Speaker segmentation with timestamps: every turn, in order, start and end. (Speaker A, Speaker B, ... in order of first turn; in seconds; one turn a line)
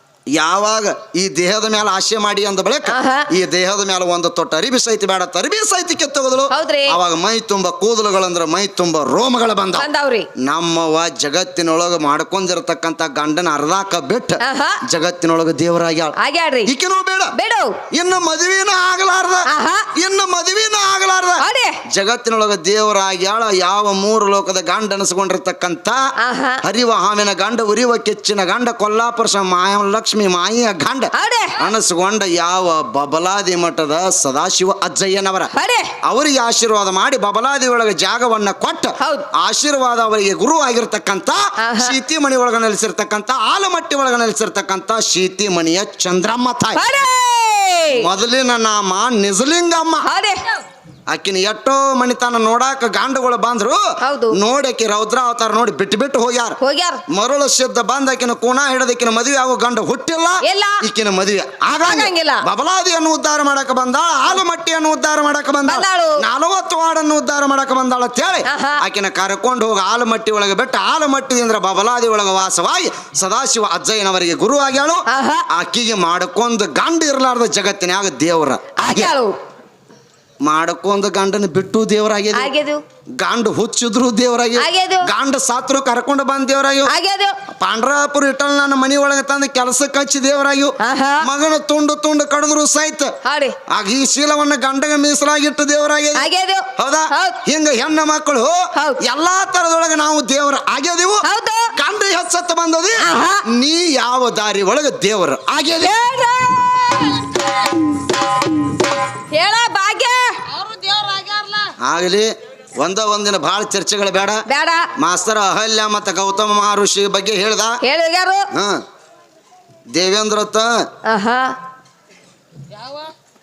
Speaker A: 0.3-16.1
Speaker B: 2.9-3.3
Speaker B: 6.5-7.0
Speaker B: 9.8-10.3
Speaker B: 14.4-14.8
Speaker B: 16.2-16.7
Speaker A: 16.7-17.3
Speaker B: 17.4-17.8
Speaker A: 17.9-26.0
Speaker B: 19.5-19.9
Speaker B: 21.4-21.8
Speaker B: 26.2-26.6
Speaker A: 26.6-35.5
Speaker B: 31.1-31.6
Speaker B: 35.5-35.9
Speaker A: 36.0-46.8
Speaker B: 39.0-39.3
Speaker B: 41.6-42.0
Speaker B: 46.8-48.1
Speaker A: 47.9-50.1
Speaker B: 50.0-50.5
Speaker A: 51.1-79.1
Speaker B: 54.0-54.4
Speaker B: 56.6-57.0
Speaker B: 60.4-60.8
Speaker B: 61.8-62.4
Speaker B: 65.7-66.2
Speaker B: 68.5-68.8
Speaker B: 75.1-75.5
Speaker B: 78.8-79.4
Speaker A: 80.4-82.5
Speaker B: 82.3-82.8
Speaker A: 83.2-86.9
Speaker B: 84.6-85.1
Speaker B: 86.9-87.4
Speaker A: 87.6-93.1
Speaker B: 90.8-91.3
Speaker B: 93.3-93.6
Speaker A: 93.7-101.2
Speaker B: 96.2-97.4
Speaker B: 101.2-101.7
Speaker A: 101.8-106.0
Speaker B: 103.0-103.4
Speaker B: 105.8-107.3
Speaker C: 107.0-107.7
Speaker B: 109.3-110.4
Speaker C: 110.5-111.7
Speaker A: 111.8-114.4
Speaker B: 114.5-114.9
Speaker A: 115.0-117.8
Speaker B: 117.8-118.5
Speaker A: 118.5-118.8
Speaker A: 119.9-120.7
Speaker B: 121.1-121.5
Speaker C: 122.7-123.1